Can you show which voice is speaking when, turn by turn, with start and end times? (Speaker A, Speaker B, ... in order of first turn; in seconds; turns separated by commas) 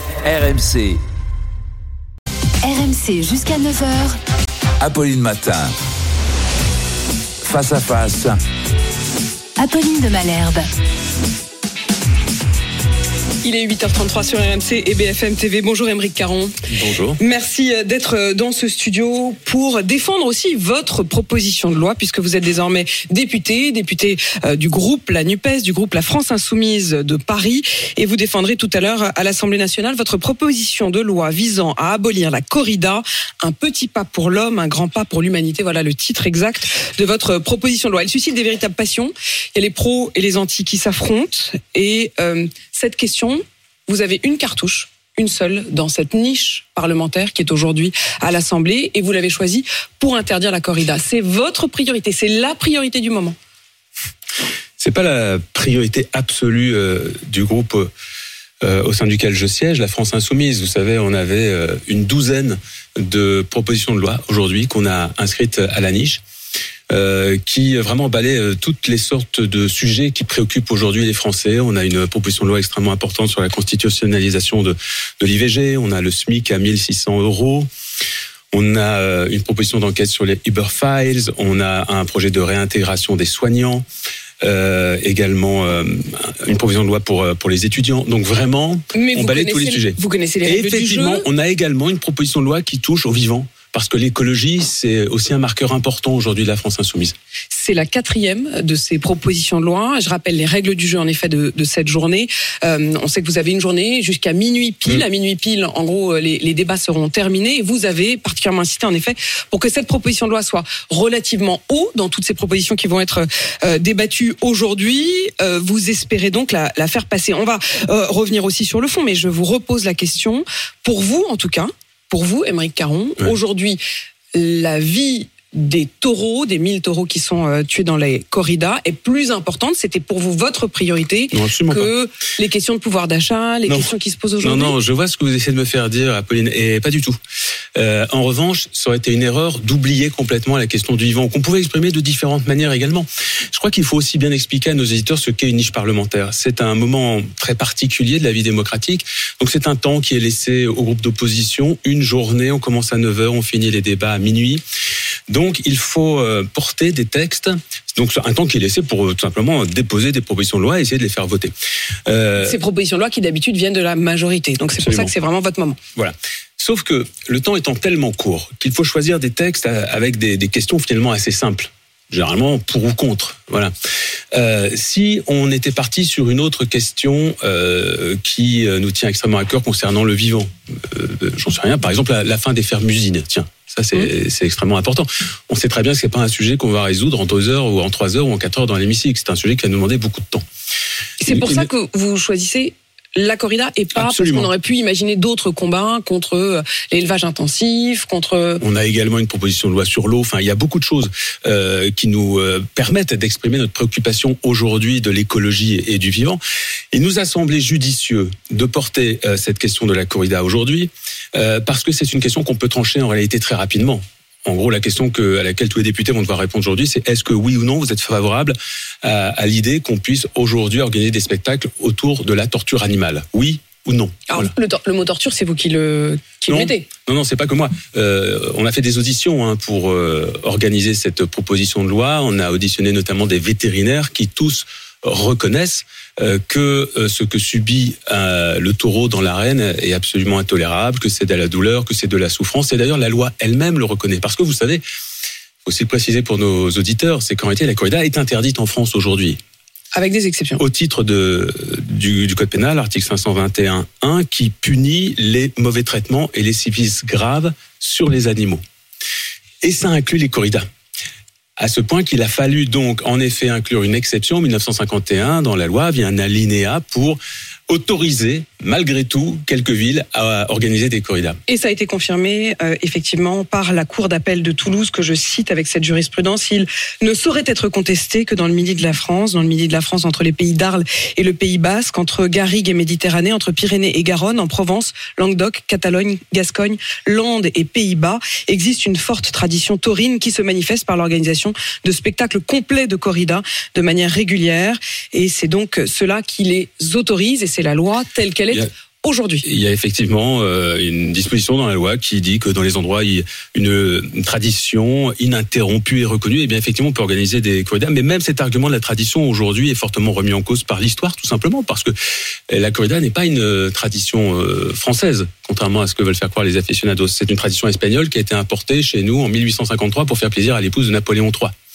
Speaker A: 0.2-1.0, Speaker B: 2.6-4.2, Speaker A: 4.8-5.8, Speaker A: 7.4-8.4, Speaker B: 9.6-10.7, Speaker C: 13.4-16.6, Speaker D: 16.7-17.2, Speaker C: 17.2-53.4, Speaker D: 54.8-57.9, Speaker D: 58.6-66.2, Speaker D: 66.9-77.7, Speaker D: 78.5-83.8, Speaker D: 84.4-97.1, Speaker C: 88.9-91.2, Speaker C: 97.5-123.8, Speaker C: 124.3-134.8, Speaker D: 131.3-131.9, Speaker D: 133.7-137.2, Speaker D: 137.8-154.6, Speaker D: 155.3-161.5, Speaker D: 162.1-162.6, Speaker C: 162.4-165.8, Speaker D: 164.8-165.1, Speaker D: 165.9-173.7, Speaker D: 174.3-190.4, Speaker C: 191.2-198.6, Speaker D: 191.3-191.7, Speaker D: 193.9-194.5, Speaker D: 198.6-206.4, Speaker D: 206.9-224.5, Speaker C: 224.3-226.9, Speaker D: 226.5-244.8, Speaker D: 245.7-249.4, Speaker C: 249.9-250.6, Speaker D: 250.6-258.6, Speaker D: 259.6-260.7, Speaker D: 261.6-271.4, Speaker C: 271.5-299.4, Speaker D: 299.4-311.9, Speaker D: 312.5-321.5